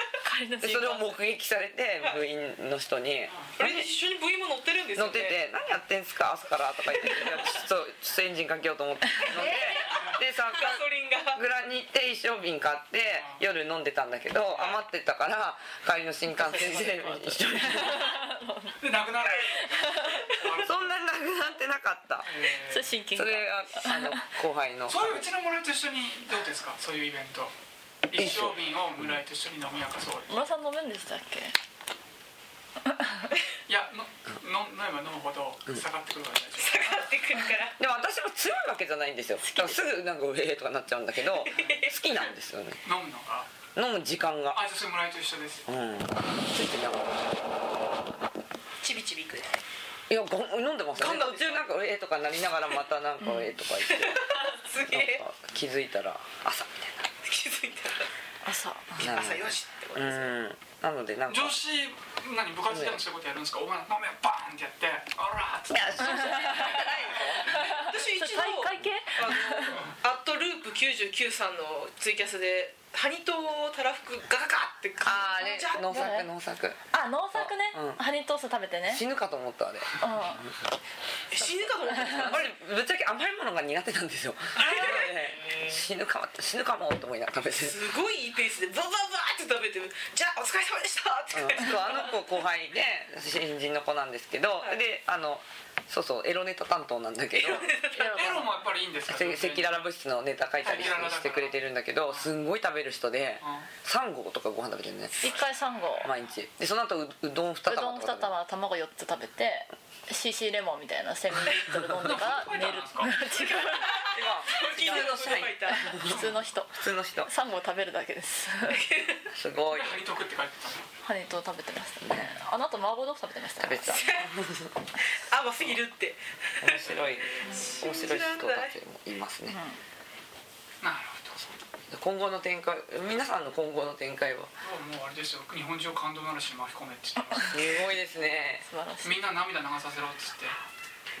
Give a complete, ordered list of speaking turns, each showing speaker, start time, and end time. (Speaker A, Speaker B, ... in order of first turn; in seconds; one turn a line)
Speaker A: 0.2-1.2
Speaker B: 0.6-3.9
Speaker C: 3.3-3.5
Speaker D: 3.6-5.4
Speaker B: 4.9-18.2
Speaker D: 9.2-11.4
Speaker C: 13.1-13.4
Speaker C: 14.5-14.8
Speaker A: 16.4-18.8
Speaker D: 16.5-17.1
Speaker C: 18.8-21.0
Speaker A: 19.4-20.2
Speaker B: 20.5-22.3
Speaker C: 22.2-23.0
Speaker A: 22.7-24.2
Speaker B: 23.1-25.2
Speaker C: 24.9-27.5
Speaker C: 28.1-30.3
Speaker B: 28.1-29.1
Speaker A: 30.3-31.5
Speaker C: 33.7-37.1
Speaker D: 36.6-37.8
Speaker B: 37.7-42.8
Speaker A: 39.4-39.8
Speaker D: 41.4-41.9
Speaker C: 41.5-41.9
Speaker C: 42.8-43.5
Speaker B: 43.7-44.6
Speaker C: 44.5-45.7
Speaker B: 45.7-47.4
Speaker D: 48.8-49.6
Speaker B: 50.1-57.1
Speaker D: 51.0-51.6
Speaker A: 53.2-53.5
Speaker D: 53.9-55.2
Speaker D: 57.2-58.1
Speaker A: 58.4-59.1
Speaker D: 59.0-60.3
Speaker B: 59.0-61.6
Speaker C: 61.3-67.6
Speaker B: 62.7-63.0
Speaker B: 65.7-67.6
Speaker A: 66.0-66.8
Speaker A: 67.5-69.8
Speaker D: 67.7-76.2
Speaker B: 75.0-76.8
Speaker A: 75.8-76.3
Speaker A: 76.9-79.0
Speaker B: 77.3-78.0
Speaker B: 78.9-80.6
Speaker A: 80.0-80.4
Speaker D: 81.3-82.5
Speaker A: 81.4-82.2
Speaker B: 82.1-87.9
Speaker D: 84.6-85.1
Speaker C: 84.6-85.8
Speaker D: 87.5-92.2
Speaker B: 91.3-97.7
Speaker D: 97.3-98.4
Speaker A: 97.9-98.5
Speaker C: 98.0-99.9
Speaker B: 99.0-105.2
Speaker C: 100.6-102.3
Speaker C: 103.4-103.7
Speaker A: 105.2-106.1
Speaker B: 106.0-108.3
Speaker A: 107.7-114.1
Speaker C: 111.9-113.3
Speaker D: 113.9-115.9
Speaker B: 114.0-117.3
Speaker A: 115.7-116.7
Speaker C: 116.1-116.3
Speaker A: 117.2-118.8
Speaker D: 118.7-119.2
Speaker B: 119.3-120.0
Speaker C: 119.7-120.9
Speaker A: 121.0-124.1
Speaker B: 122.0-122.3
Speaker B: 123.6-124.7
Speaker D: 123.9-124.3
Speaker D: 125.2-126.6
Speaker B: 126.6-129.6
Speaker C: 126.7-127.8
Speaker D: 127.4-128.7
Speaker A: 129.5-129.8
Speaker C: 130.8-131.5
Speaker B: 131.9-134.5
Speaker C: 134.6-137.8
Speaker B: 137.5-138.7
Speaker A: 138.7-139.3
Speaker C: 139.0-140.6